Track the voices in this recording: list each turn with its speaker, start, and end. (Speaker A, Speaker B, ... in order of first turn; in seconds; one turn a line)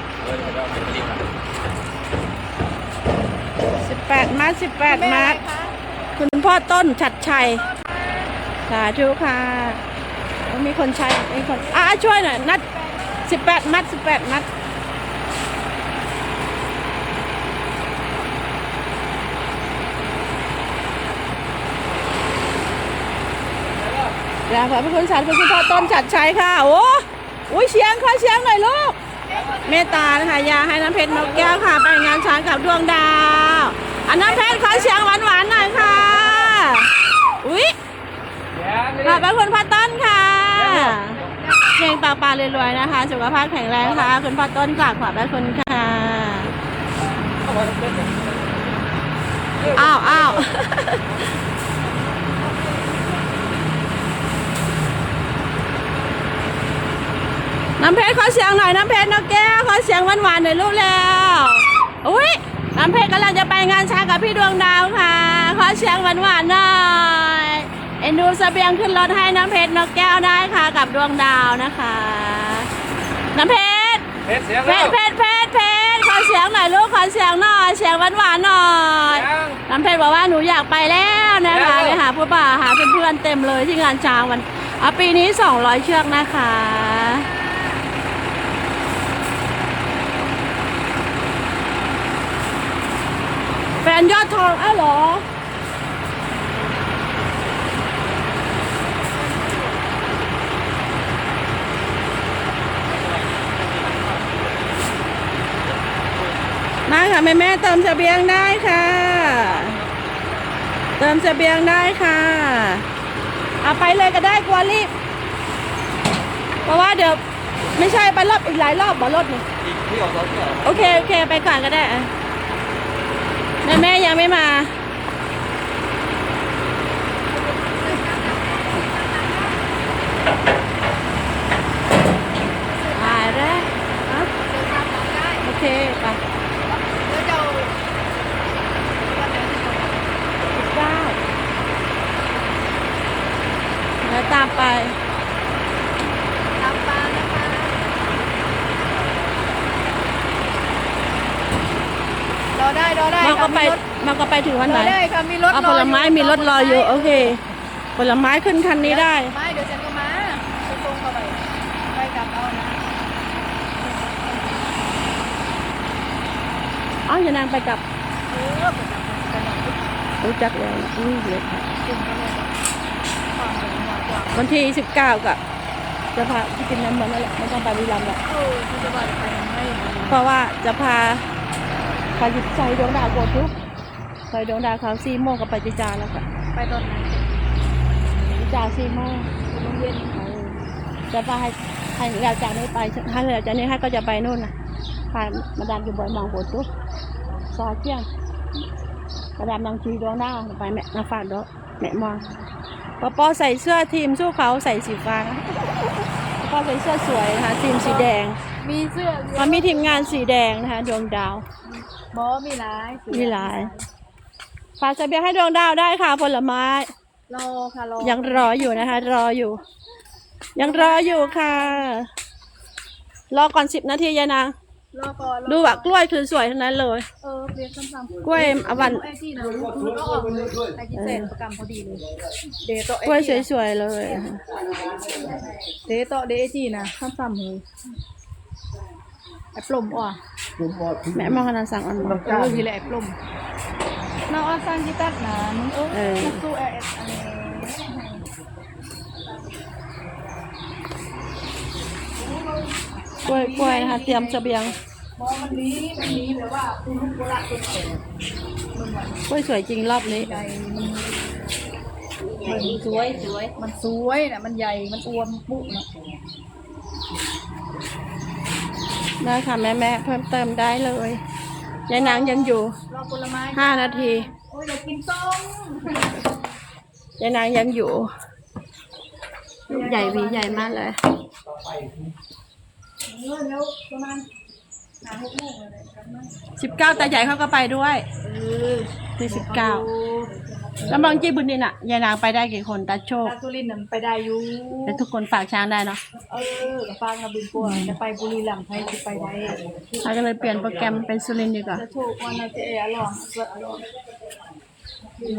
Speaker A: 0.2-1.2
Speaker B: 3.8-5.4
Speaker C: 4.8-5.8
Speaker B: 6.2-7.7
Speaker C: 7.3-8.3
Speaker B: 8.7-9.8
Speaker B: 10.5-12.6
Speaker C: 11.6-11.9
Speaker C: 12.6-13.5
Speaker B: 13.3-14.5
Speaker B: 24.5-29.0
Speaker C: 29.3-30.4
Speaker B: 29.6-37.8
Speaker C: 34.2-34.9
Speaker A: 38.6-39.1
Speaker B: 39.0-41.2
Speaker C: 41.1-41.8
Speaker B: 41.8-46.5
Speaker A: 47.4-48.5
Speaker B: 49.7-51.0
Speaker A: 49.7-50.0
Speaker C: 52.6-53.0
Speaker B: 57.8-72.7
Speaker B: 73.3-74.1
Speaker A: 74.3-74.8
Speaker B: 74.6-87.3
Speaker A: 79.3-79.6
Speaker B: 93.8-95.2
Speaker C: 99.3-99.7
Speaker A: 102.9-104.7
Speaker A: 106.1-106.5
Speaker B: 106.9-109.8
Speaker A: 109.7-110.0
Speaker B: 111.0-112.8
Speaker B: 113.6-114.9
Speaker B: 116.7-117.2
Speaker B: 117.8-119.5
Speaker A: 119.6-121.1
Speaker B: 120.6-122.1
Speaker B: 123.6-124.7
Speaker C: 127.3-129.7
Speaker C: 132.6-135.5
Speaker B: 132.9-134.3
Speaker B: 135.4-136.2
Speaker C: 136.7-137.8
Speaker C: 138.9-140.2
Speaker B: 140.5-141.2
Speaker B: 144.0-145.0
Speaker C: 146.6-147.8
Speaker C: 152.5-153.8
Speaker B: 153.2-155.0
Speaker C: 154.6-157.4
Speaker B: 155.5-157.4
Speaker B: 158.0-159.3
Speaker C: 158.8-162.8
Speaker C: 163.8-164.8
Speaker B: 167.1-167.8
Speaker C: 168.3-169.8
Speaker B: 170.2-171.7
Speaker C: 171.8-172.6
Speaker C: 173.3-174.5
Speaker B: 174.3-175.4
Speaker B: 176.2-178.2
Speaker C: 178.2-180.2
Speaker B: 180.1-181.2
Speaker B: 182.2-183.5
Speaker B: 184.3-186.2
Speaker C: 186.5-187.3
Speaker B: 188.3-189.3
Speaker C: 189.5-190.2
Speaker B: 190.2-194.5
Speaker B: 195.1-196.7
Speaker B: 197.5-198.1
Speaker B: 199.4-202.2
Speaker B: 203.0-208.4
Speaker C: 207.7-210.3
Speaker B: 209.3-211.4
Speaker C: 211.7-213.9
Speaker B: 213.1-213.7
Speaker B: 214.8-216.9
Speaker C: 217.3-219.1
Speaker B: 218.0-219.6
Speaker B: 220.6-222.1
Speaker C: 220.6-221.9
Speaker B: 223.3-224.6
Speaker C: 224.9-225.9
Speaker B: 225.5-227.1
Speaker C: 227.2-232.1
Speaker B: 228.2-229.0
Speaker B: 231.0-231.3
Speaker C: 232.6-233.5
Speaker B: 233.0-234.4
Speaker C: 235.3-237.7
Speaker C: 239.6-240.2
Speaker B: 241.1-242.3
Speaker C: 242.0-243.2
Speaker C: 244.3-248.2
Speaker B: 245.9-246.4
Speaker C: 252.2-254.5
Speaker B: 253.2-254.8
Speaker C: 255.2-258.0
Speaker C: 258.7-259.3
Speaker B: 259.3-260.4
Speaker C: 260.0-261.2
Speaker B: 262.4-263.5
Speaker C: 262.4-262.9
Speaker C: 263.6-265.9
Speaker B: 269.2-271.2
Speaker B: 271.9-272.8
Speaker C: 271.9-276.3
Speaker B: 273.5-274.3
Speaker B: 277.2-278.1
Speaker C: 279.7-280.8
Speaker B: 279.7-281.0
Speaker C: 283.1-284.3
Speaker C: 285.0-286.3
Speaker B: 286.6-288.1
Speaker C: 288.2-290.3
Speaker B: 289.2-289.9
Speaker B: 290.8-293.4
Speaker C: 293.2-295.0
Speaker B: 294.9-296.0
Speaker C: 296.3-299.6
Speaker B: 297.6-297.9
Speaker B: 300.0-301.8
Speaker C: 301.7-303.9